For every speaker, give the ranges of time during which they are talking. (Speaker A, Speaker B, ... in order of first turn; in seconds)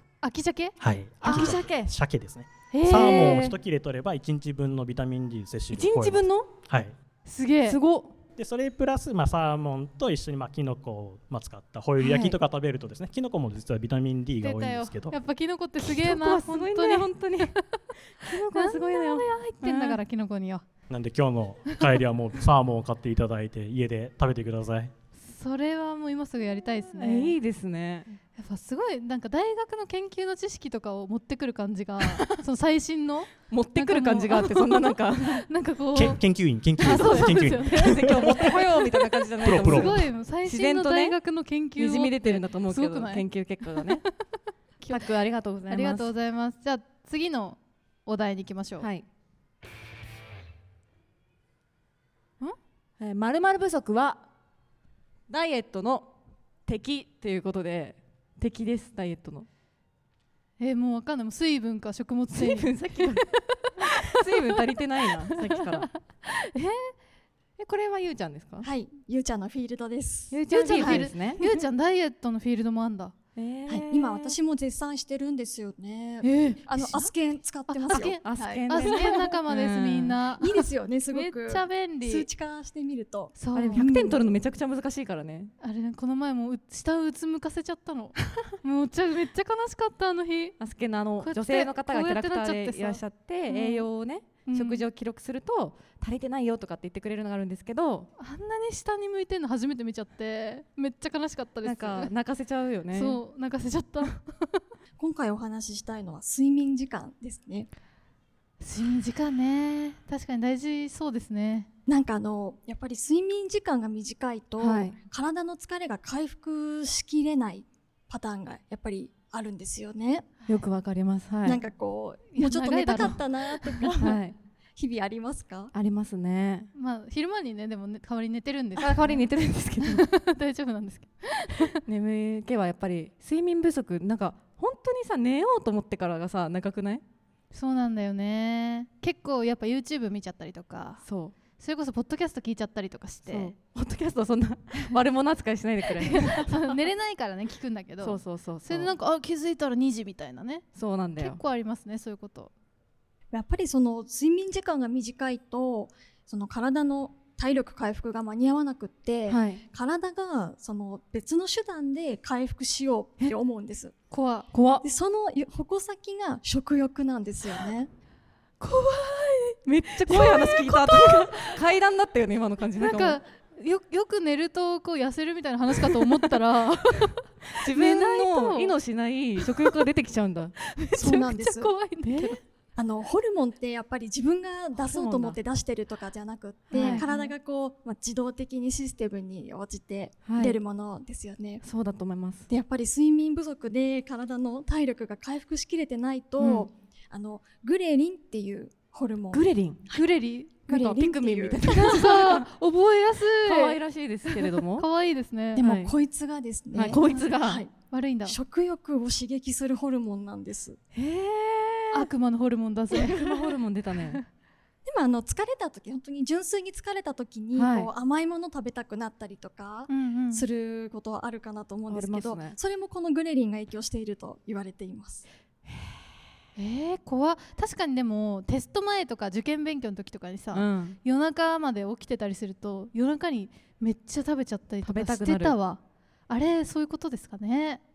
Speaker A: 0.2-1.6, 2.7-3.4, 7.2-7.8, 14.4-20.6, 25.2-27.4, 28.4-36.2, 36.8-38.6, 39.4-43.9, 45.7-48.9, 60.6-64.6, 65.2-66.9, 70.5-73.1, 77.7-82.3, 83.3-83.8, 85.6-90.5, 91.2-93.9, 94.5-94.8, 98.2-102.1, 102.9-104.6, 108.6-111.7, 122.3-124.0, 126.7-129.2, 129.8-131.8, 137.5-141.0, 141.6-143.5, 146.0-150.6, 151.2-152.5, 164.1-164.5, 168.6-171.6, 172.8-178.7, 179.4-179.8, 180.8-182.4, 186.7-187.3, 199.9-200.5, 201.7-205.6, 206.9-207.3, 207.9-208.4, 211.9-213.3, 219.9-220.4, 226.6-237.8
Speaker B: 0.8-6.9, 8.4-15.1, 20.9-24.9, 35.9-38.6, 39.4-40.0
Speaker C: 1.2-1.9, 2.9-3.5, 5.7-6.5, 7.7-8.1, 15.8-17.5, 18.2-20.0, 27.0-28.2, 32.0-32.3, 33.5-35.5, 36.8-41.2, 41.8-44.0, 44.9-46.1, 48.8-49.0, 53.0-54.2, 55.3-56.1, 56.6-59.5, 62.3-63.3, 63.8-65.9, 67.6-68.7, 70.3-71.6, 73.3-74.3, 76.2-77.1, 77.8-80.2, 83.5-85.5, 90.6-98.1, 101.6-103.2, 114.6-114.9, 120.5-121.6, 124.0-124.3, 125.7-126.7, 128.8-130.1, 131.8-137.0, 141.0-141.3, 143.3-146.8, 148.0-148.9, 150.7-151.4, 159.3-159.6, 164.5-164.8, 169.6-173.2, 175.8-176.3, 177.6-180.6, 182.0-182.4, 184.8-185.4, 186.7-187.1, 190.2-190.6, 191.6-192.5, 196.4-196.7, 199.3-199.8, 200.7-202.5, 203.4-204.9, 205.6-205.9, 206.7-207.6, 210.9-212.1, 212.9-214.2, 217.5-217.9, 221.9-222.6, 225.7-226.0, 230.5-231.0, 234.8-235.6
Speaker D: 68.6-71.1, 73.7-79.3, 80.4-84.2, 105.0-107.7, 111.9-120.3, 121.4-124.2, 124.8-125.7, 153.3-163.9, 164.8-167.9, 180.9-181.7, 182.8-191.6, 192.5-200.0, 200.7-202.2, 205.6-207.7, 208.2-210.8, 214.8-225.2